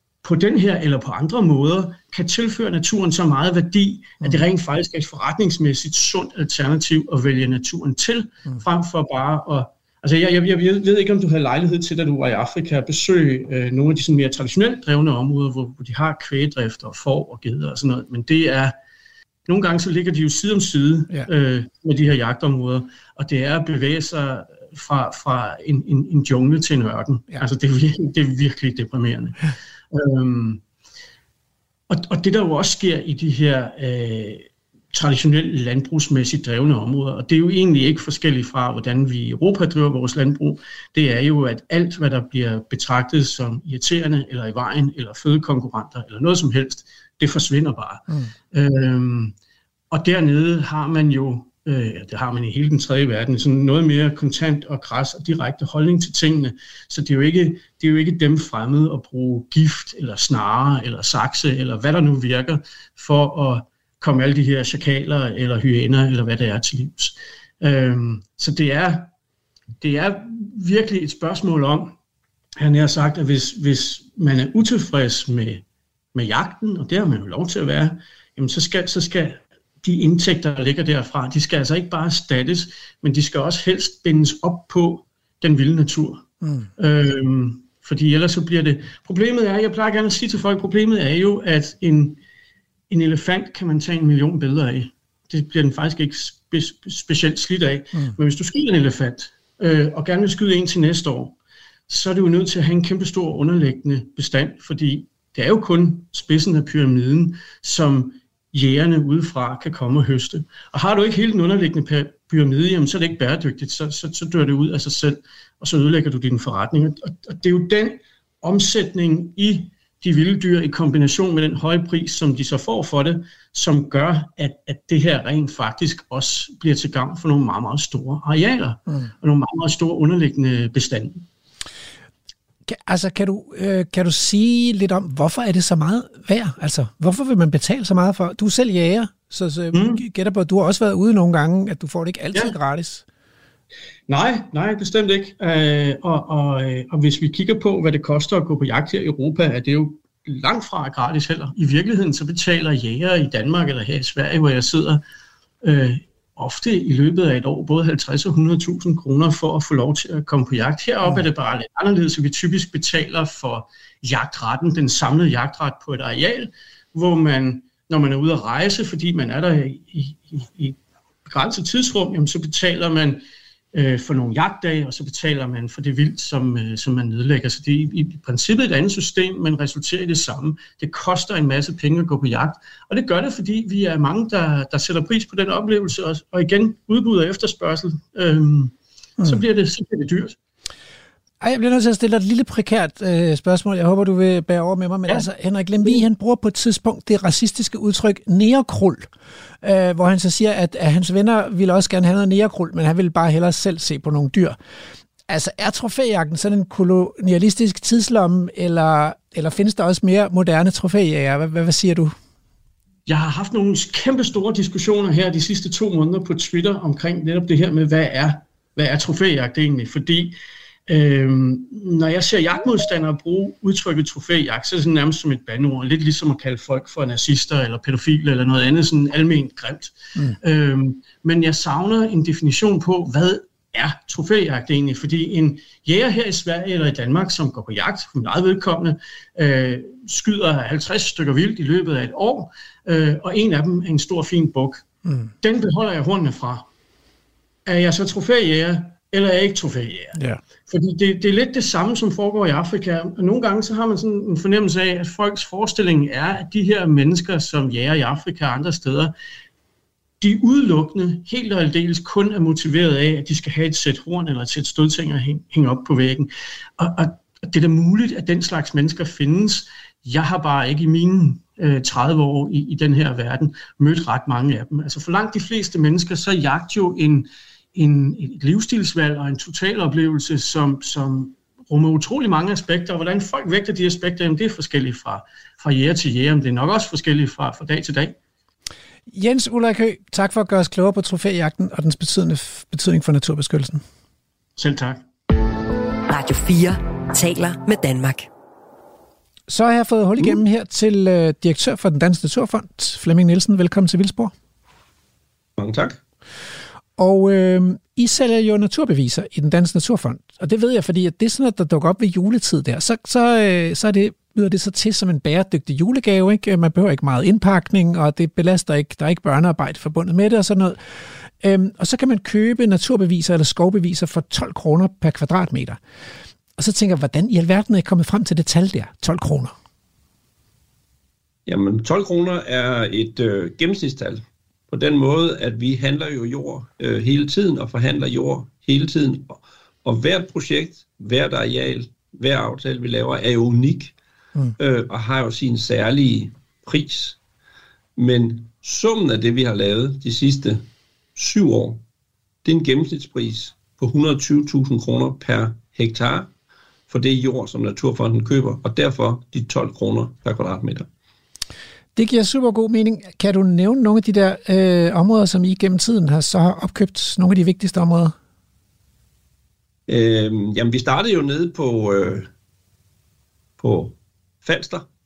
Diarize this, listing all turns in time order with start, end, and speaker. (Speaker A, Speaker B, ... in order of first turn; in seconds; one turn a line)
Speaker A: 0.2-18.8
Speaker A: 19.5-30.6
Speaker A: 31.9-49.3
Speaker A: 49.9-69.1
Speaker A: 69.8-72.0
Speaker A: 72.6-86.2
Speaker B: 86.4-86.7
Speaker A: 86.8-92.2
Speaker A: 92.9-101.3
Speaker A: 101.9-131.2
Speaker B: 132.7-143.0
Speaker A: 139.7-140.0
Speaker A: 144.1-155.0
Speaker A: 155.6-190.4
Speaker B: 191.4-199.1
Speaker B: 199.6-204.6
Speaker B: 205.3-212.1
Speaker A: 213.1-244.8
Speaker A: 245.4-246.7
Speaker A: 247.7-259.1
Speaker B: 250.1-250.4
Speaker A: 260.2-288.1
Speaker B: 289.1-293.8
Speaker A: 294.6-295.0
Speaker C: 296.1-298.3
Speaker B: 299.5-304.3
Speaker D: 305.6-306.0
Speaker B: 307.0-320.8
Speaker B: 321.4-325.8
Speaker B: 326.6-329.5
Speaker D: 331.4-343.9
Speaker D: 344.6-347.2
Speaker D: 348.0-350.6
Speaker D: 351.1-351.8
Speaker D: 352.4-356.3
Speaker D: 356.9-360.9
Speaker B: 361.9-368.1
Speaker D: 369.9-372.3
Speaker D: 373.6-374.9